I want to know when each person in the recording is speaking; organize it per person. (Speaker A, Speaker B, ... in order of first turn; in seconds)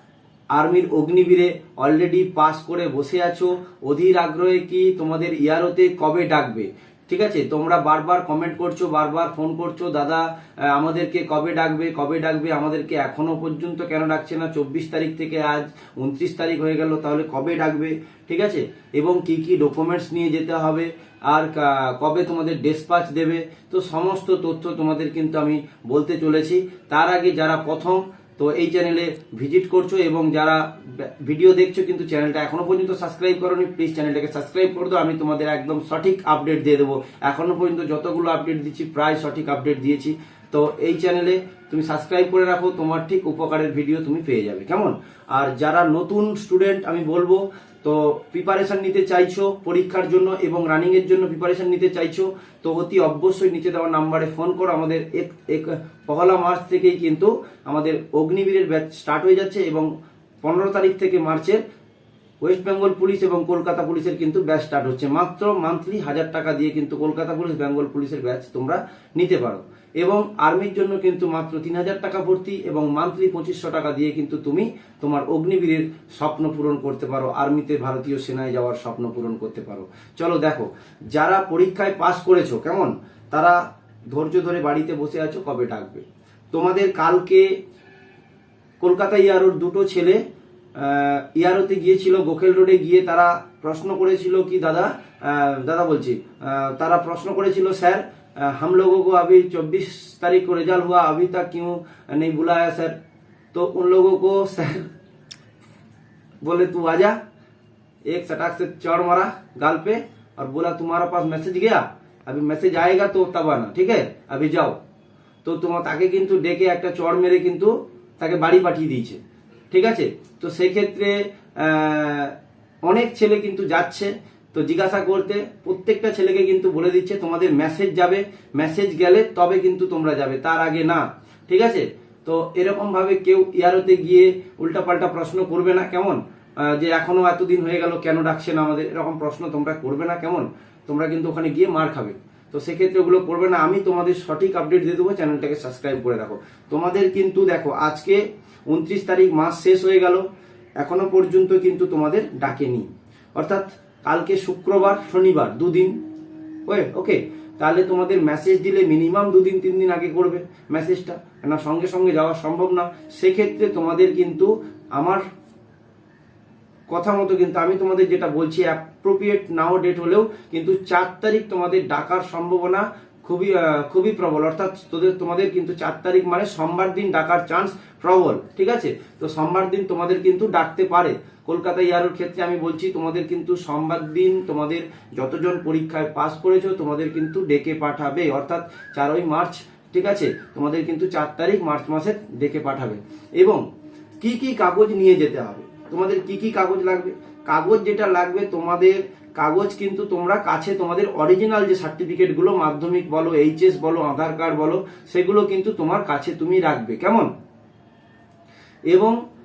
Speaker A: 0.5-59.9, 60.4-61.6, 62.4-83.6, 84.1-87.5, 88.8-90.2, 90.8-103.0, 103.5-104.9, 106.4-107.2, 108.1-114.8, 115.4-119.2, 119.7-150.2, 150.8-156.0, 156.7-165.2, 166.9-193.6, 194.2-207.3, 208.9-209.2